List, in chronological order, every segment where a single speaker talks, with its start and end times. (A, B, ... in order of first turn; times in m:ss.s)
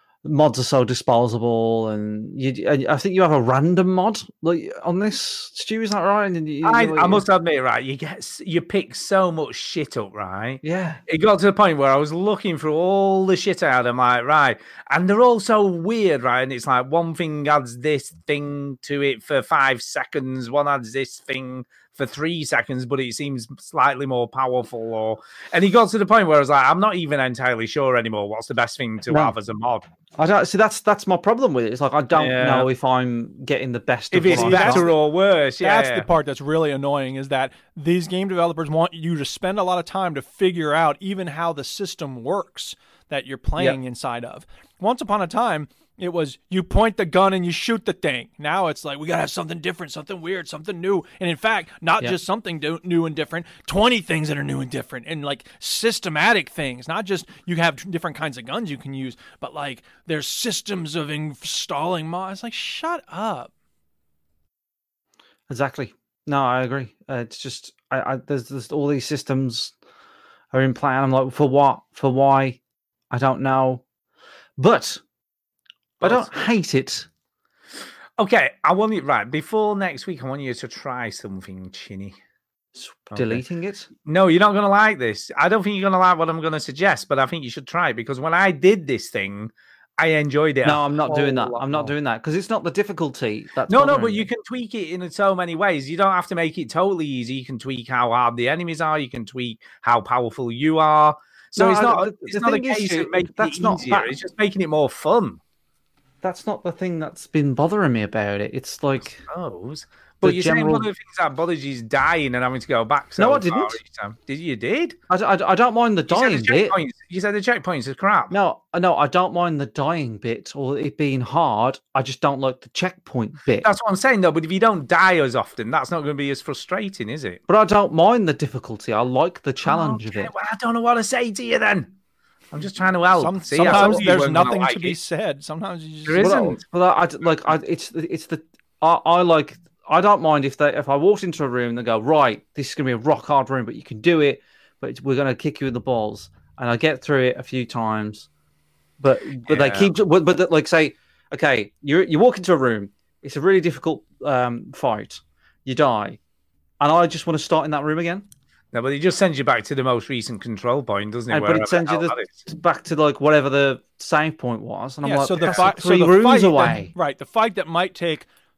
0:00.2-0:07.2 A
0:06.6-0:29.8 B
0:10.6-0:11.0 A
0:29.1-0:29.4 A
0:30.2-0:34.9 A
0:32.1-0:32.7 B
0:34.1-0:36.1 B
0:34.3-0:35.0 C
0:35.6-1:03.5 C
1:05.5-1:09.8 A
1:10.5-1:12.6 A
1:13.1-1:13.8 A
1:14.6-1:15.0 A
1:16.0-1:17.1 A
1:16.0-1:16.3 B
1:18.2-1:22.2 B
1:22.8-1:23.9 A
1:23.1-1:23.4 B
1:24.1-1:31.9 B
1:30.6-1:34.3 A
1:33.7-1:45.4 B
1:41.6-1:44.2 A
1:46.2-1:49.2 A
1:49.3-1:55.0 B
1:50.2-1:50.9 A
1:53.2-1:53.8 A
1:55.1-1:56.8 A
1:56.1-1:58.3 B
1:58.3-2:03.7 A
2:03.6-2:07.4 B
2:07.5-2:10.3 A
2:09.6-2:11.9 B
2:12.5-2:15.0 B
2:13.2-2:16.3 C
2:13.7-2:14.1 A
2:16.1-2:16.6 B
2:16.2-2:28.3 A
2:29.0-2:36.2 A
2:29.5-2:29.9 B
2:36.8-2:38.3 A
2:38.7-2:42.5 B
2:41.3-2:46.9 A
2:45.0-2:48.3 C